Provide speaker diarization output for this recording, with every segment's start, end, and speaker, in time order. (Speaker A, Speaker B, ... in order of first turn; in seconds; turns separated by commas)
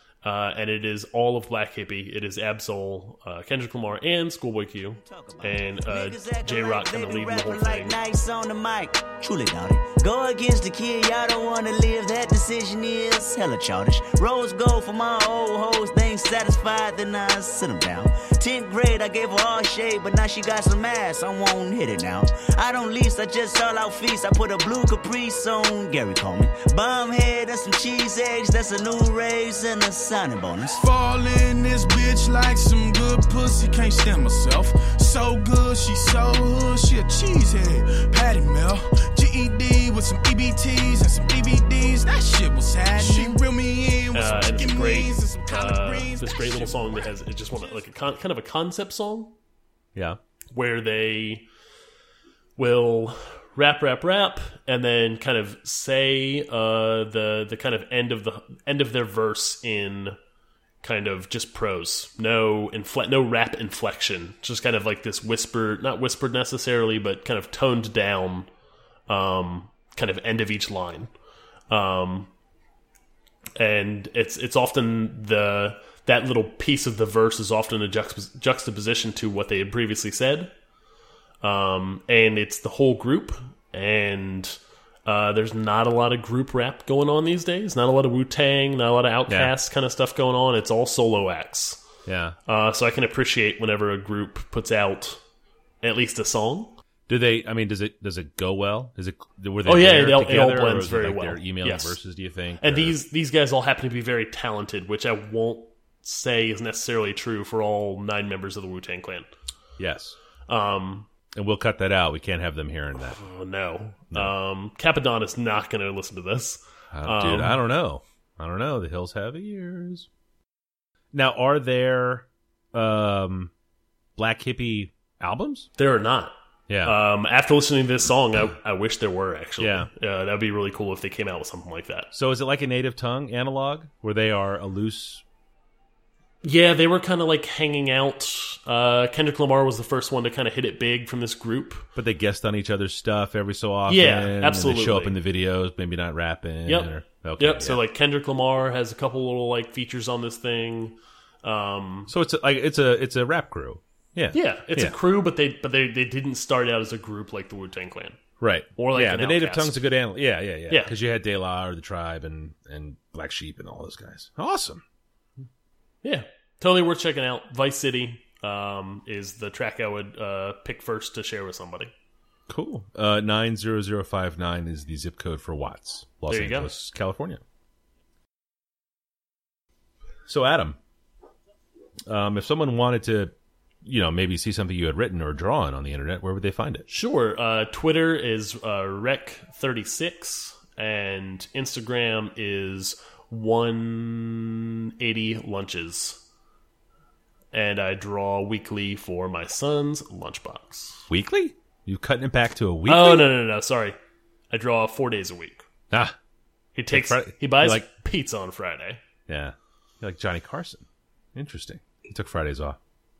Speaker A: 0.2-8.0, Speaker B: 5.0-30.8, Speaker C: 30.7-47.0, Speaker A: 44.1-49.4, Speaker A: 50.5-51.4, Speaker A: 52.6-60.2, Speaker A: 60.8-68.5, Speaker A: 69.1-71.1, Speaker A: 71.7-72.3, Speaker A: 73.5-80.5, Speaker A: 81.4-91.8, Speaker D: 89.3-89.5, Speaker D: 92.0-92.3, Speaker A: 92.5-95.2, Speaker A: 95.8-96.8, Speaker D: 97.1-103.0, Speaker A: 99.6-102.0, Speaker A: 102.6-109.3, Speaker D: 109.8-110.2, Speaker A: 110.5-111.1, Speaker D: 111.3-113.2, Speaker A: 113.0-117.6, Speaker D: 116.9-120.1, Speaker D: 121.1-123.5, Speaker D: 124.2-125.7, Speaker A: 125.8-132.1, Speaker D: 126.7-127.0, Speaker D: 129.6-129.9, Speaker D: 132.1-135.2, Speaker A: 136.4-141.9, Speaker D: 141.9-147.8, Speaker A: 143.9-145.2, Speaker A: 146.7-152.1, Speaker D: 152.1-154.9, Speaker A: 154.3-158.2, Speaker D: 158.4-164.8, Speaker A: 158.8-159.8, Speaker A: 160.7-160.9, Speaker A: 166.0-171.9, Speaker D: 172.5-177.4, Speaker A: 176.3-176.7, Speaker D: 180.3-180.8, Speaker D: 182.1-183.3, Speaker D: 183.8-186.8, Speaker A: 186.9-196.2, Speaker A: 197.5-201.0, Speaker D: 201.1-203.3, Speaker A: 202.8-204.0, Speaker A: 204.5-205.7, Speaker A: 206.7-209.0, Speaker D: 206.9-207.9, Speaker D: 209.3-212.8